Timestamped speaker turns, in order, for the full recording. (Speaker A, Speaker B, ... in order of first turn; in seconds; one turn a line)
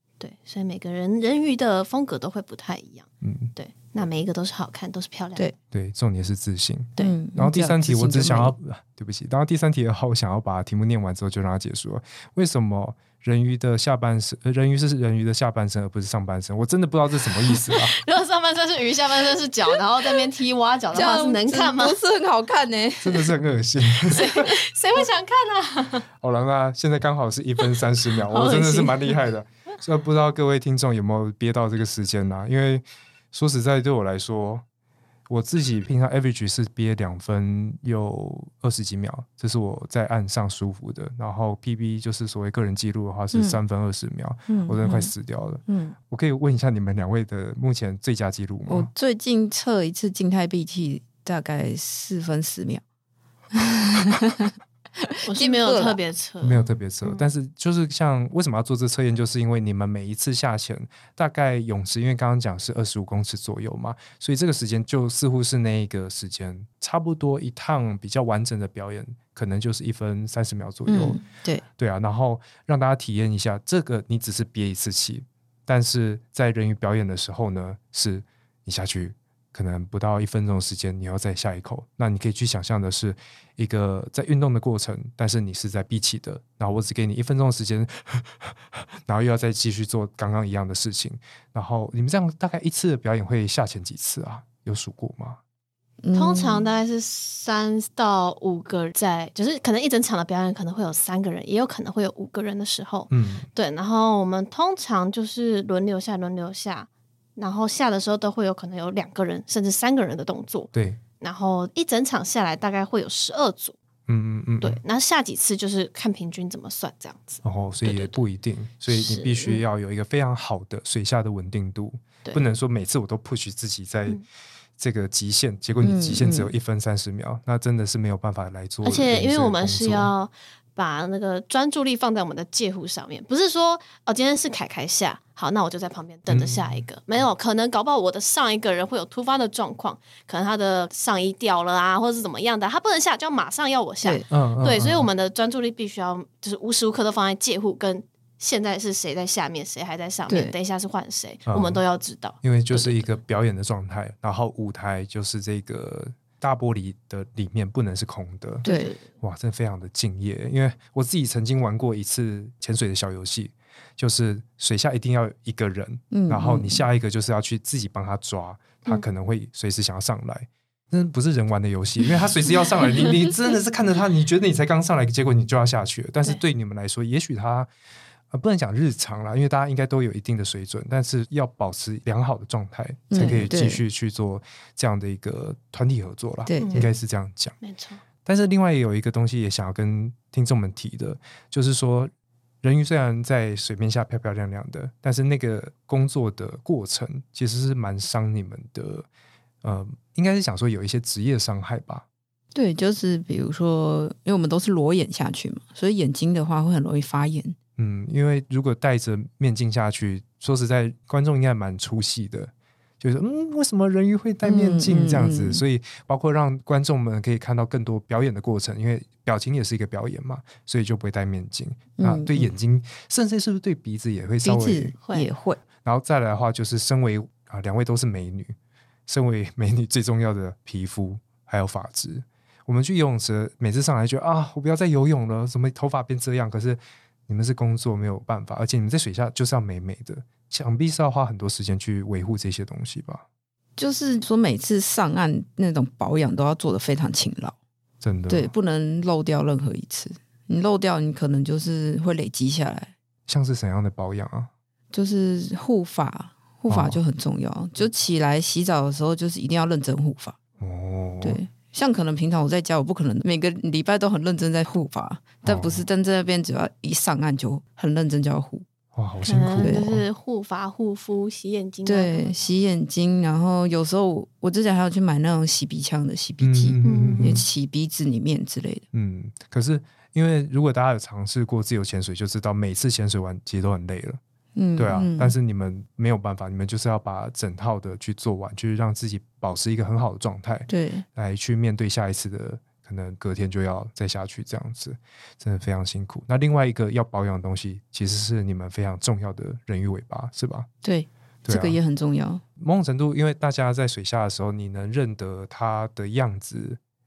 Speaker A: 0.2-5.5
Speaker B: 3.2-3.5
Speaker B: 5.7-18.0
Speaker C: 7.0-8.5
Speaker A: 17.7-22.0
Speaker C: 20.9-23.3
Speaker B: 23.0-24.5
Speaker A: 24.1-26.1
Speaker B: 26.2-34.6
Speaker A: 27.8-29.2
Speaker B: 35.3-48.9
Speaker C: 43.3-43.6
Speaker C: 44.5-45.1
Speaker C: 45.7-46.0
Speaker C: 48.7-52.8
Speaker C: 53.5-56.0
Speaker A: 55.2-57.2
Speaker B: 56.4-71.2
Speaker C: 70.9-71.6
Speaker B: 71.8-95.4
Speaker C: 96.0-96.7
Speaker A: 96.2-113.8
Speaker B: 103.1-103.5
Speaker B: 110.7-111.0
Speaker B: 114.1-114.8
Speaker A: 114.6-118.2
Speaker B: 117.4-124.2
Speaker A: 118.9-119.6
Speaker B: 124.8-130.1
Speaker C: 125.8-126.5
Speaker A: 128.8-153.1
Speaker B: 136.3-136.8
Speaker B: 144.3-145.1
Speaker C: 150.3-150.6
Speaker B: 151.5-151.8
Speaker B: 152.4-158.7
Speaker C: 158.6-158.9
Speaker A: 158.6-159.1
Speaker B: 159.2-177.7
Speaker C: 166.1-166.8
Speaker B: 178.3-187.6
Speaker C: 183.1-183.8
Speaker A: 183.2-183.4
Speaker C: 186.5-186.9
Speaker A: 186.6-186.9
Speaker A: 187.6-188.0
Speaker B: 188.2-192.1
Speaker B: 192.6-199.1
Speaker B: 199.6-202.1
Speaker C: 202.5-207.6
Speaker B: 207.8-225.0
Speaker C: 214.4-215.6
Speaker C: 222.0-222.5
Speaker C: 224.4-225.6
Speaker B: 225.8-228.5
Speaker B: 229.1-243.2
Speaker C: 243.8-247.6
Speaker B: 248.0-248.5
Speaker C: 248.3-252.9
Speaker B: 253.3-254.5
Speaker C: 254.9-260.4
Speaker B: 256.7-257.0
Speaker B: 260.6-261.4
Speaker C: 261.2-268.6
Speaker B: 265.4-265.9
Speaker B: 268.9-270.1
Speaker A: 269.3-272.4
Speaker C: 269.6-269.9
Speaker C: 271.9-278.9
Speaker B: 276.4-277.4
Speaker A: 276.8-277.4
Speaker B: 278.9-284.2
Speaker C: 284.6-285.4
Speaker B: 284.8-300.7
Speaker C: 290.7-291.1
Speaker C: 300.8-302.4
Speaker B: 301.4-301.8
Speaker B: 302.6-306.8